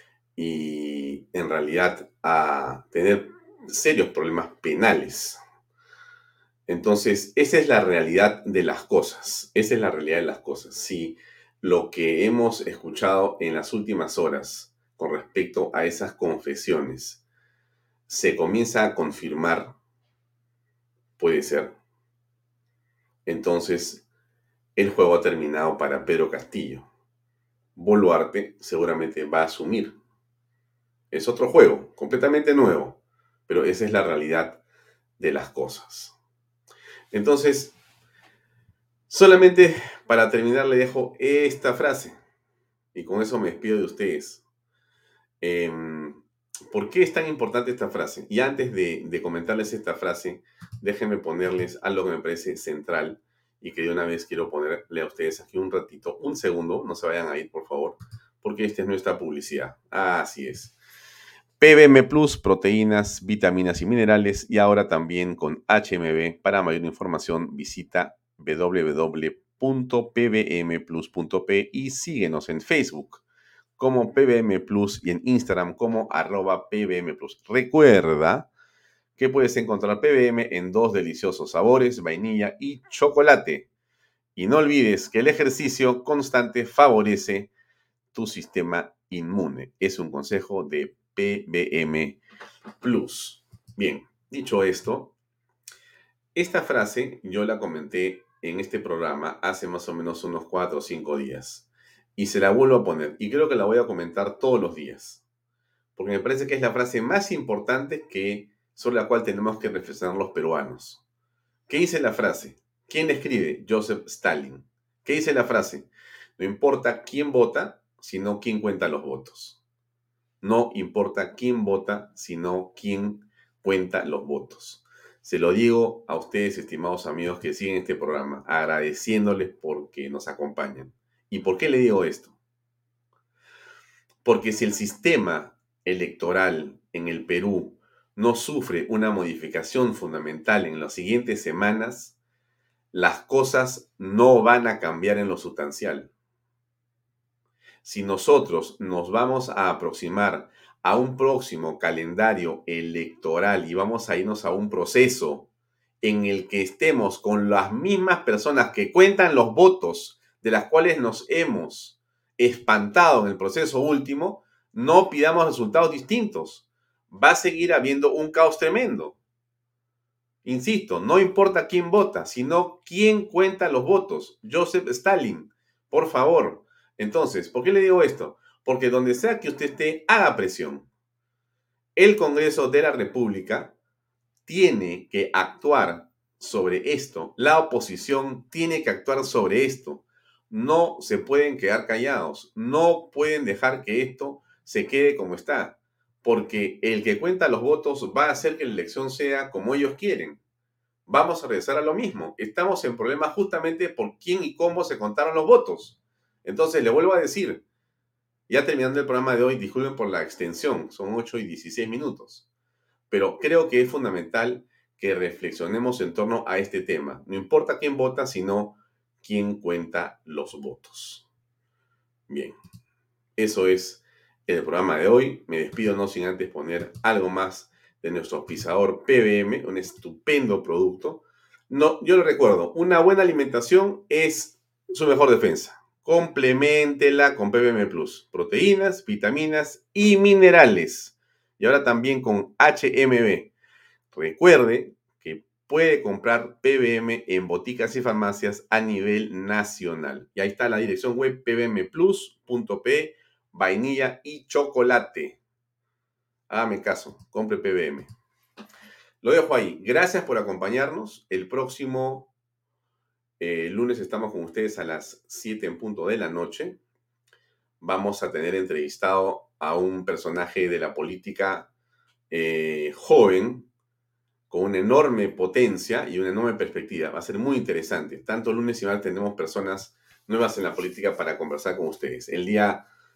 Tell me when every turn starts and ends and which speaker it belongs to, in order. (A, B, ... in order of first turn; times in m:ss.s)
0:00.4-0:05.4 A
0:06.7-0:17.2 A
0:18.1-0:19.7 A
0:21.2-0:21.7 A
0:23.2-0:24.0 A
0:24.8-0:26.8 A
0:27.7-0:29.9 A
0:31.1-0:34.6 A
0:35.2-0:36.1 A
0:37.1-0:37.7 A
0:39.1-0:42.2 A
0:42.9-0:44.4 A
0:45.4-1:00.7 A
1:01.6-1:13.2 A
1:13.8-1:18.5 A
1:19.2-1:23.6 A
1:24.4-1:27.5 A
1:28.1-1:32.2 A
1:32.8-1:35.1 A
1:36.3-1:45.2 A
1:46.0-1:51.0 A
1:51.7-1:59.6 A
2:00.4-2:12.3 A
2:14.2-2:22.1 A
2:22.9-2:26.1 A
2:27.8-2:35.5 A
2:36.0-2:49.2 A
2:50.4-3:00.9 A
3:02.0-3:03.7 A
3:04.4-3:20.4 A
3:21.1-3:27.6 A
3:28.5-3:32.4 A
3:33.1-3:41.2 A
3:42.3-3:42.6 A
3:43.4-4:03.5 A
4:04.1-4:15.4 A
4:16.5-4:18.1 A
4:19.2-4:22.3 A
4:23.4-4:26.8 A
4:27.8-4:31.7 A
4:32.3-4:33.7 A
4:34.5-4:42.8 A